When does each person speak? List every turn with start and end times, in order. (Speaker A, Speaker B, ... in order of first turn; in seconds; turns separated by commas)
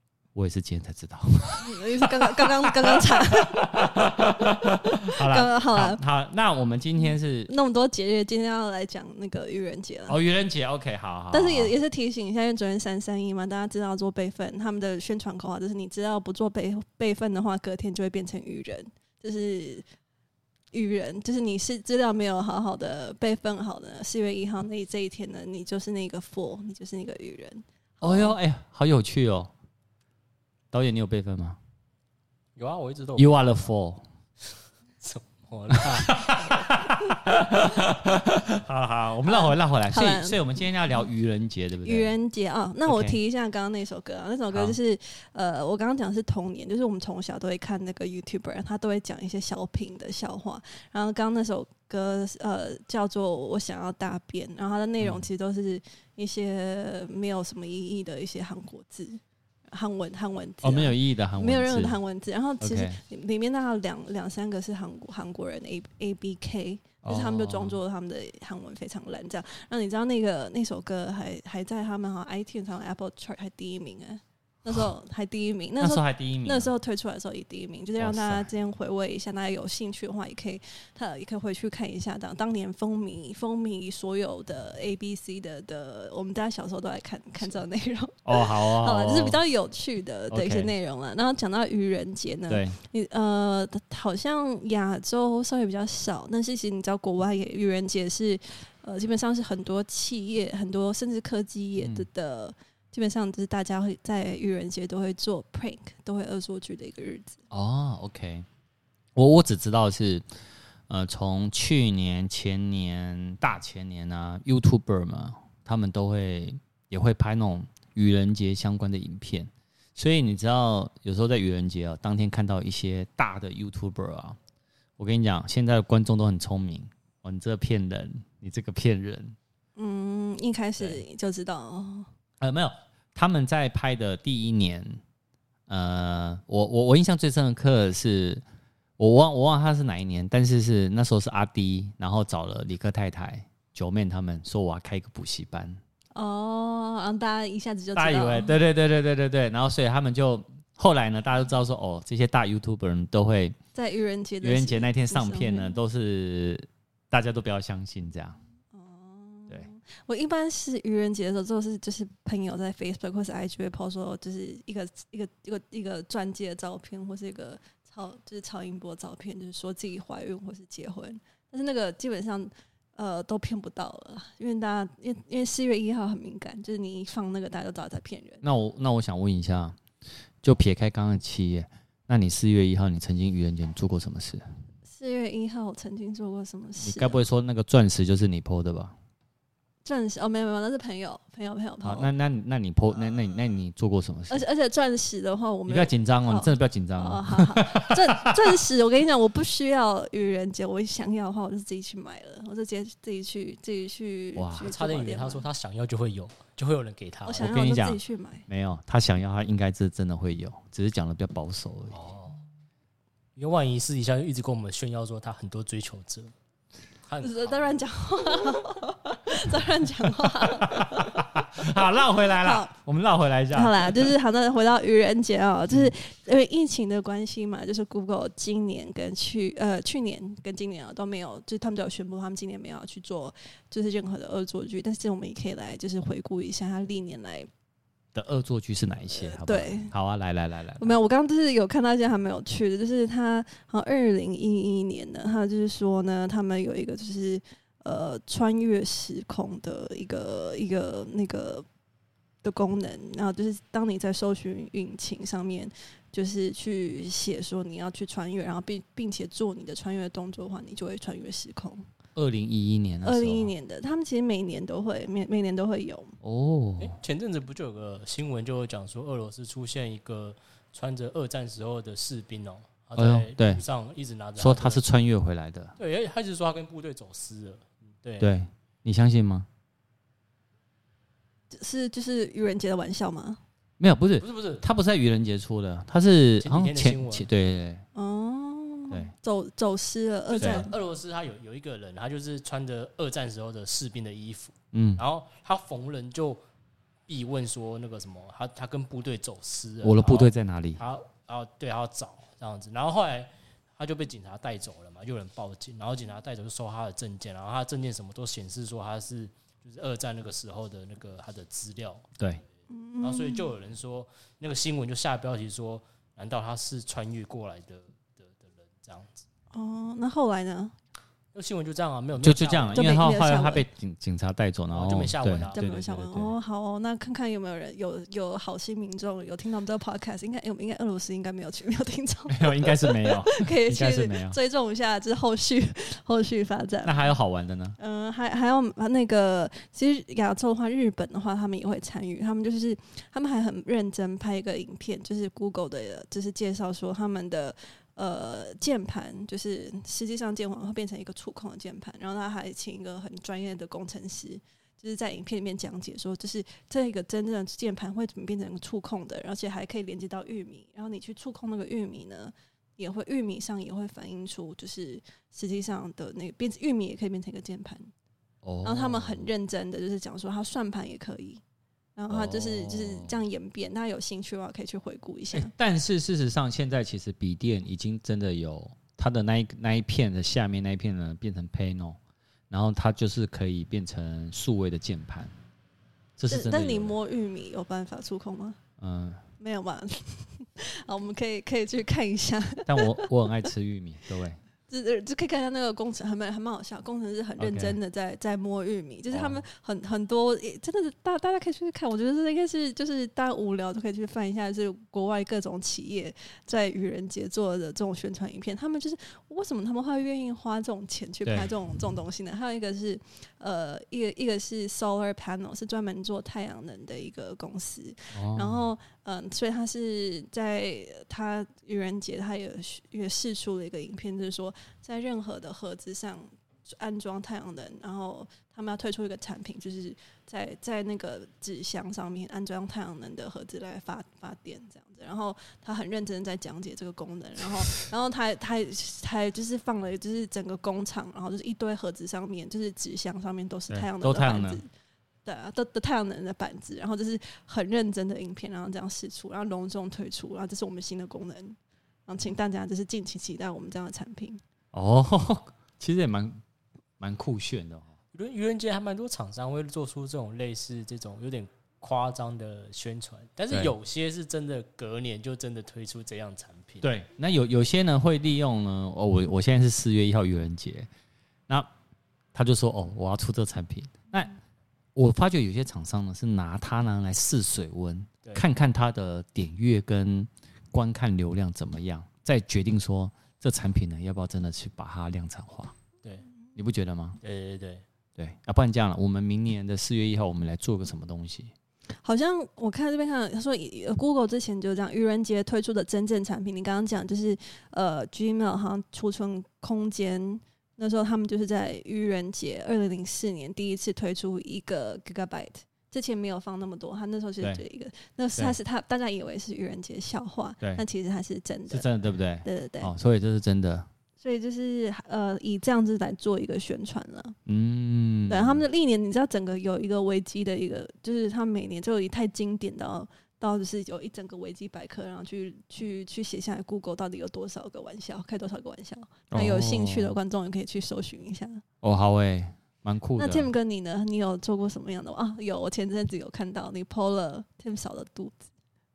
Speaker A: 0.3-7.5, Speaker B: 1.6-6.0, Speaker B: 7.5-10.2, Speaker A: 10.1-11.7, Speaker B: 11.3-19.9, Speaker B: 20.7-28.4, Speaker A: 28.0-29.5, Speaker A: 30.7-31.6, Speaker C: 32.5-33.4, Speaker A: 33.1-34.0, Speaker C: 35.0-36.7, Speaker A: 35.7-42.1, Speaker B: 39.2-40.6, Speaker B: 41.8-107.4, Speaker A: 42.9-43.1, Speaker A: 44.5-44.8, Speaker A: 60.6-62.0, Speaker A: 62.6-63.0, Speaker A: 67.0-67.8, Speaker A: 75.8-76.7, Speaker A: 78.0-78.5, Speaker A: 88.2-89.4, Speaker A: 90.3-90.7, Speaker A: 92.5-92.8, Speaker A: 101.8-102.1, Speaker A: 107.5-108.5, Speaker A: 109.1-110.2, Speaker A: 110.9-124.4, Speaker A: 125.0-129.4, Speaker B: 129.8-132.1, Speaker A: 130.8-131.0, Speaker A: 132.4-135.0, Speaker A: 135.7-138.4, Speaker A: 139.0-145.8, Speaker B: 146.1-148.6, Speaker A: 147.9-153.6, Speaker B: 153.7-155.7, Speaker A: 154.4-158.4, Speaker B: 158.7-178.4, Speaker A: 178.4-179.8, Speaker A: 180.4-184.4, Speaker B: 184.9-187.2, Speaker A: 186.8-188.9, Speaker B: 189.8-192.1, Speaker A: 191.8-194.4, Speaker B: 194.3-205.4, Speaker A: 195.7-198.4, Speaker A: 204.3-204.7, Speaker C: 204.6-207.5, Speaker B: 207.2-208.4, Speaker A: 207.4-212.0, Speaker C: 211.9-212.4, Speaker C: 213.3-216.3, Speaker C: 217.1-217.7, Speaker B: 217.2-222.7, Speaker A: 220.4-224.1, Speaker B: 223.5-237.5, Speaker A: 238.1-240.9, Speaker B: 239.1-239.9, Speaker B: 240.8-251.7, Speaker B: 252.4-261.9, Speaker A: 262.1-263.5, Speaker B: 263.0-266.2, Speaker A: 266.2-266.9, Speaker C: 266.8-274.9, Speaker A: 272.9-273.6, Speaker A: 274.4-275.8, Speaker C: 275.8-278.3, Speaker A: 278.2-279.5, Speaker B: 281.5-283.4, Speaker A: 283.8-287.8, Speaker C: 284.2-284.7, Speaker C: 286.4-287.3, Speaker B: 287.9-290.7, Speaker C: 290.3-296.4, Speaker A: 290.4-290.6, Speaker A: 294.7-295.0, Speaker C: 297.1-312.2, Speaker A: 299.8-300.8, Speaker B: 312.7-313.5, Speaker C: 313.0-319.2, Speaker B: 319.5-320.7, Speaker C: 321.3-322.9, Speaker A: 322.2-326.3, Speaker B: 322.7-323.6, Speaker C: 324.7-325.9, Speaker B: 325.5-337.1, Speaker A: 332.3-334.4, Speaker A: 336.8-337.8, Speaker B: 337.8-367.9, Speaker A: 368.4-369.3, Speaker B: 368.6-371.4, Speaker B: 371.9-375.5, Speaker A: 372.1-373.1, Speaker A: 375.3-382.0, Speaker A: 382.5-385.3, Speaker A: 386.2-386.9, Speaker B: 386.3-388.6, Speaker A: 388.8-389.2, Speaker B: 389.4-393.1, Speaker A: 392.7-394.4, Speaker B: 394.7-444.7, Speaker A: 397.4-397.8, Speaker A: 399.1-399.4, Speaker A: 418.1-418.6, Speaker A: 443.7-444.6, Speaker B: 445.2-454.4, Speaker A: 454.7-456.4, Speaker A: 457.0-457.9, Speaker C: 458.1-466.9, Speaker A: 466.8-470.9, Speaker A: 472.3-474.4, Speaker A: 474.9-485.7, Speaker A: 486.6-487.2, Speaker C: 487.2-487.8, Speaker A: 488.2-491.5, Speaker B: 492.0-511.9, Speaker A: 511.7-513.9, Speaker B: 512.4-512.9, Speaker B: 514.2-517.4, Speaker A: 517.5-518.6, Speaker B: 518.3-531.6, Speaker A: 529.3-530.2, Speaker A: 531.8-533.5, Speaker B: 533.2-538.4